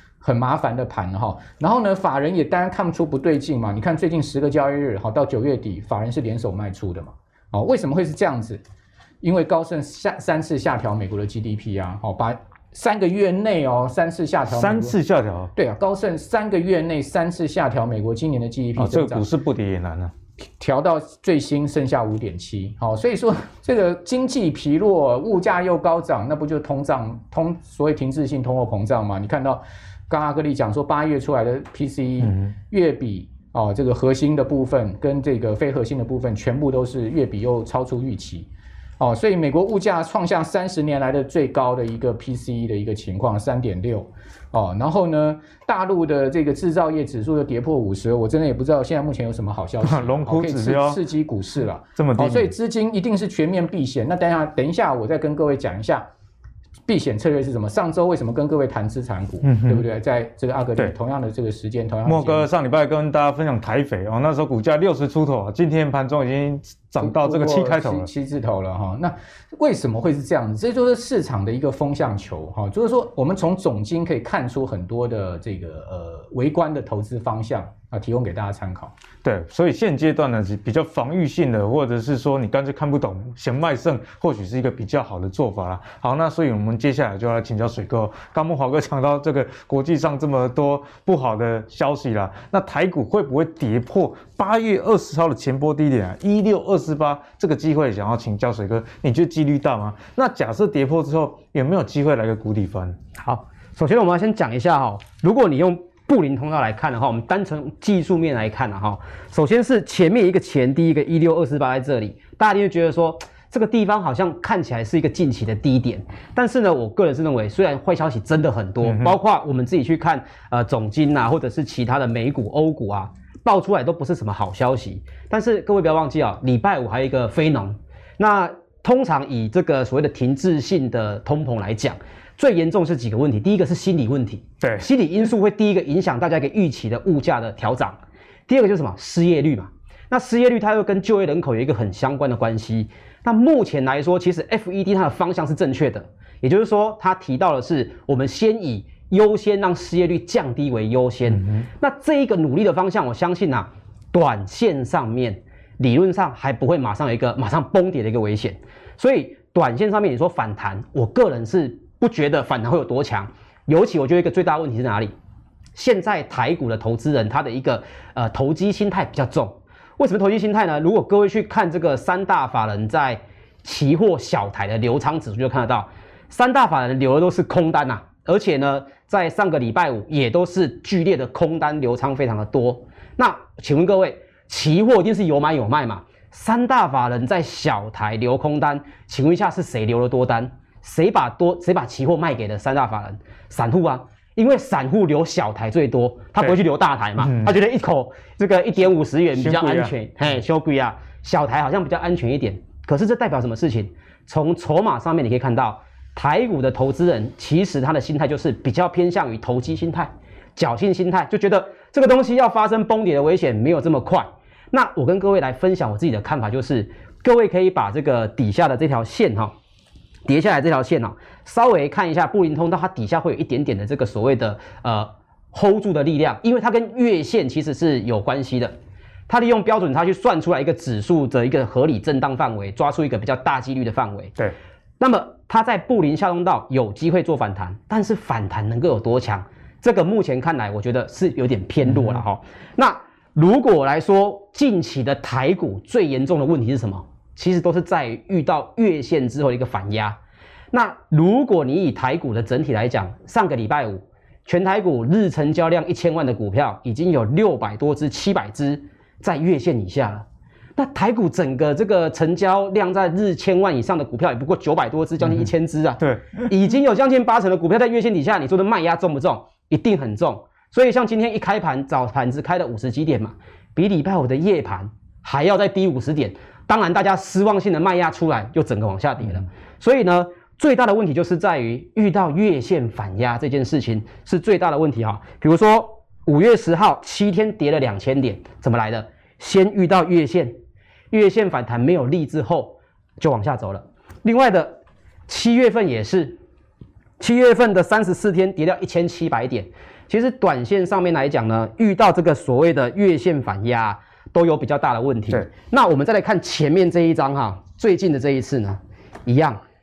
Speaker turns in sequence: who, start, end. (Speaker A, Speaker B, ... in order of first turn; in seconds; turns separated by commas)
Speaker A: 0.2-8.6, Speaker A: 9.2-14.9, Speaker B: 14.5-15.5, Speaker A: 15.6-19.2, Speaker B: 18.8-20.1, Speaker A: 20.6-38.5, Speaker A: 39.0-56.1, Speaker B: 49.8-51.0, Speaker B: 52.0-52.5, Speaker A: 56.9-62.5, Speaker B: 59.4-59.9, Speaker B: 62.1-68.1, Speaker A: 67.0-78.9, Speaker B: 79.2-103.0, Speaker C: 103.2-138.0, Speaker B: 118.8-119.2, Speaker C: 138.5-165.2, Speaker C: 165.8-219.5, Speaker B: 197.2-197.6, Speaker B: 199.4-199.9, Speaker C: 220.2-228.8, Speaker C: 229.3-234.3, Speaker C: 235.0-250.2, Speaker C: 250.7-290.6, Speaker B: 266.0-266.4, Speaker C: 291.1-296.4, Speaker C: 297.2-309.6